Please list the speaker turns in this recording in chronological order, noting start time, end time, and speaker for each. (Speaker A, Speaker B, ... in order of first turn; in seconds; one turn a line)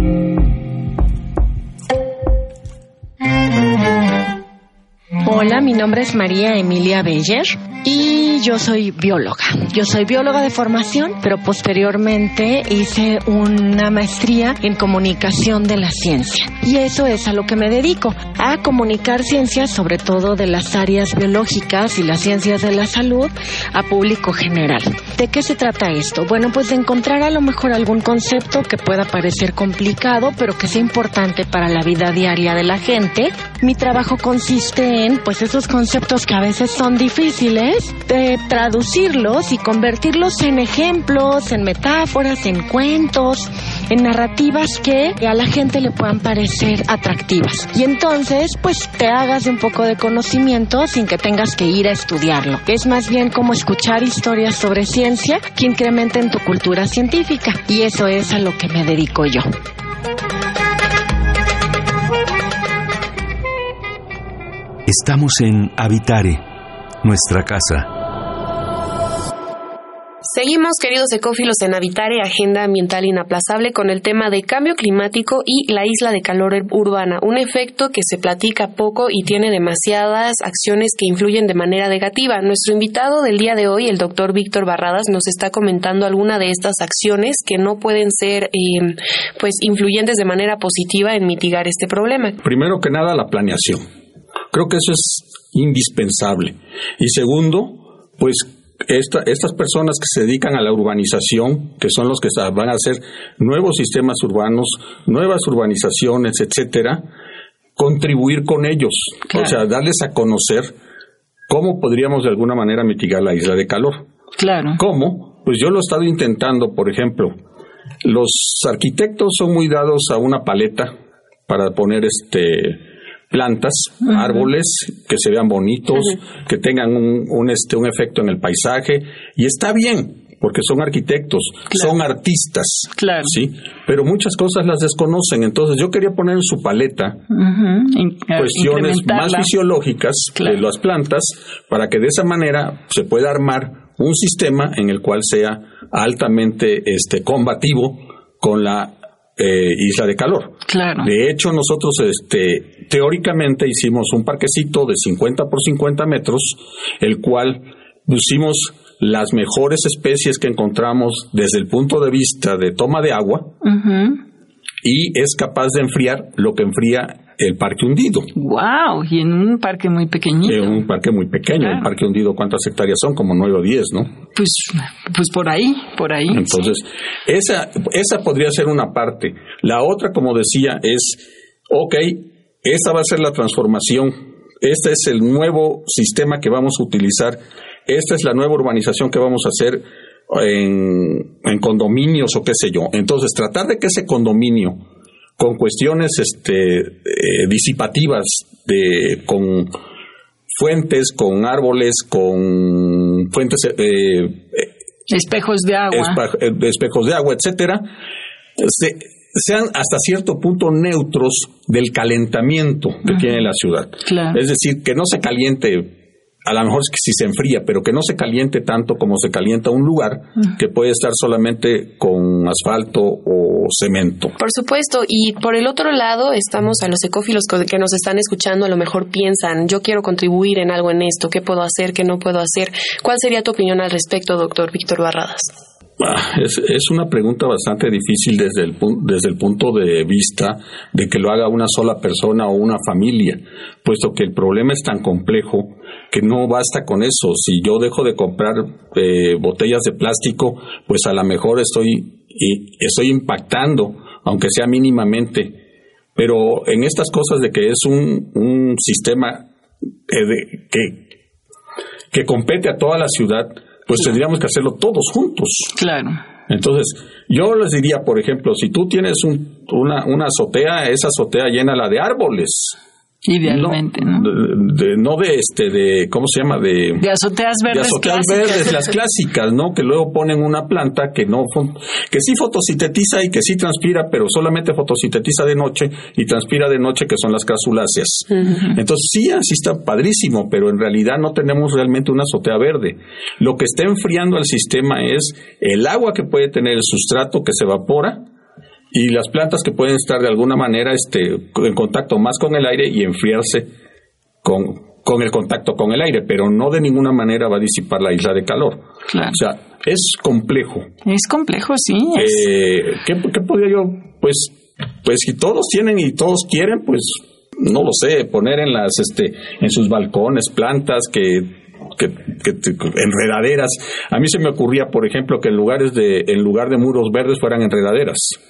Speaker A: 5.2-59.5
Speaker B: 64.9-66.5
Speaker B: 67.0-67.9
Speaker C: 70.3-92.4
Speaker D: 92.4-93.8
Speaker D: 94.5-107.0
Speaker D: 107.8-110.7
Speaker E: 109.3-109.6
Speaker D: 111.5-114.1
Speaker E: 114.4-114.8
Speaker D: 114.8-117.3
Speaker D: 118.0-120.9
Speaker D: 121.5-137.2
Speaker E: 124.1-124.4
Speaker E: 133.0-133.4
Speaker E: 137.3-139.5
Speaker D: 138.3-163.5
Speaker E: 140.4-140.6
Speaker E: 150.7-151.1
Speaker E: 163.6-164.2
Speaker D: 164.8-168.3
Speaker E: 168.3-170.7
Speaker D: 170.4-174.2
Speaker E: 171.6-171.9
Speaker E: 174.3-176.6
Speaker D: 176.3-194.8
Speaker D: 195.4-199.8
Speaker D: 200.5-204.7
Speaker E: 205.1-206.2
Speaker D: 205.9-207.9
Speaker D: 208.6-224.3
Speaker E: 214.1-214.4
Speaker C: 224.4-235.5
Speaker D: 236.0-255.6
Speaker D: 256.2-259.5
Speaker D: 260.1-261.0
Speaker D: 262.1-265.7
Speaker E: 265.8-266.2
Speaker D: 266.5-272.8
Speaker E: 273.3-274.3
Speaker D: 273.4-277.1
Speaker E: 277.0-278.7
Speaker D: 277.7-298.2
Speaker D: 298.9-303.7
Speaker D: 304.4-310.9
Speaker E: 309.1-309.4
Speaker E: 311.1-312.4
Speaker D: 312.1-328.4